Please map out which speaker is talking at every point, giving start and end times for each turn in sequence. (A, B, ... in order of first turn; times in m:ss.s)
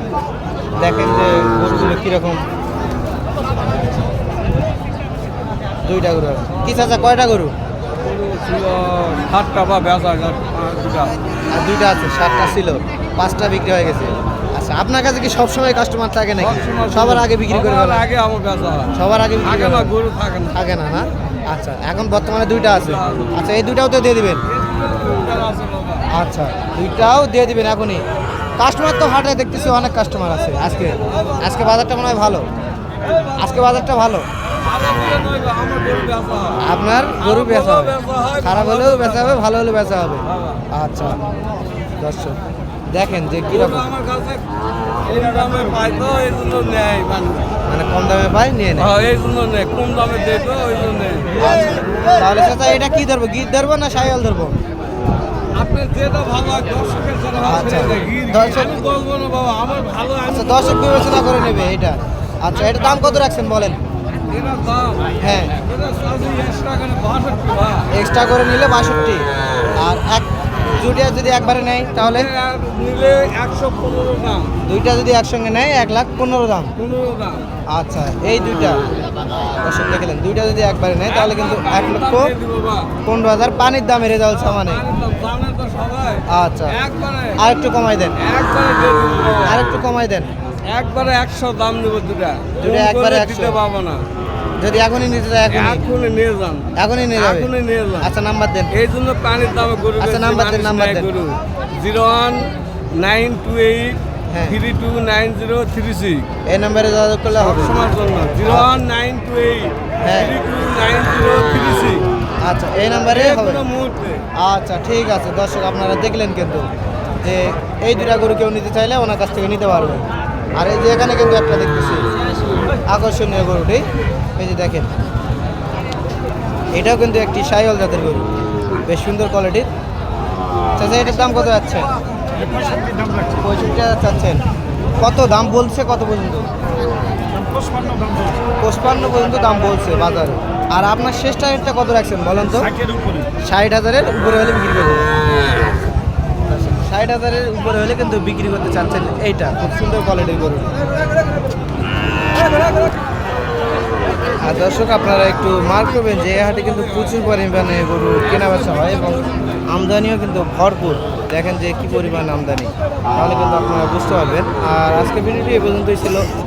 0:00.8-0:02.4 A
0:05.8-0:07.5 A
0:08.0-0:11.2 B
0:11.5-0:18.1 A
0:16.4-0:20.6 B
0:18.9-0:19.9 A
0:20.5-0:24.4 A
0:22.8-0:23.3 B
0:24.5-0:26.1 B
0:26.1-0:28.0 A
0:28.6-0:32.5 A
0:31.2-0:31.5 B
0:33.2-0:33.6 B
0:33.4-0:34.3 A
0:34.6-0:36.6 B
0:36.6-0:41.2 A
0:37.2-0:39.4 B
0:42.0-0:42.4 A
0:42.9-0:43.9 A
0:43.5-0:44.5 B
0:45.0-0:47.5 B
0:47.7-0:48.9 A
0:48.8-0:51.8 B
0:51.4-0:54.6 A
0:55.6-1:01.0 B
0:57.4-0:58.8 A
1:00.3-1:03.8 A
1:02.6-1:03.1 B
1:04.3-1:07.9 B
1:05.2-1:05.6 A
1:07.9-1:09.2 A
1:09.8-1:12.3 A
1:12.0-1:14.5 B
1:14.6-1:16.7 A
1:16.8-1:17.5 B
1:17.7-1:18.8 A
1:19.6-1:22.3 A
1:21.1-1:22.9 B
1:23.0-1:24.8 A
1:24.3-1:27.4 B
1:26.3-1:26.8 A
1:27.4-1:28.2 A
1:28.2-1:29.7 B
1:29.4-1:30.3 A
1:30.7-1:34.0 B
1:32.6-1:33.6 A
1:34.6-1:35.8 A
1:35.5-1:38.1 B
1:36.8-1:38.7 A
1:38.7-1:46.3 B
1:40.0-1:41.1 A
1:44.3-1:44.6 A
1:46.5-1:47.8 A
1:47.4-1:52.0 B
1:48.4-1:48.7 A
1:50.0-1:50.4 A
1:52.4-1:53.7 A
1:53.1-1:54.3 B
1:54.3-2:02.0 A
2:02.9-2:04.9 A
2:06.7-2:08.3 A
2:08.9-2:09.7 A
2:10.8-2:11.9 A
2:12.6-2:13.3 B
2:13.3-2:14.4 A
2:15.0-2:16.5 A
2:17.4-2:18.3 B
2:18.6-2:22.7 A
2:22.8-2:23.2 B
2:23.4-2:25.1 A
2:26.5-2:30.8 A
2:34.4-2:46.3 A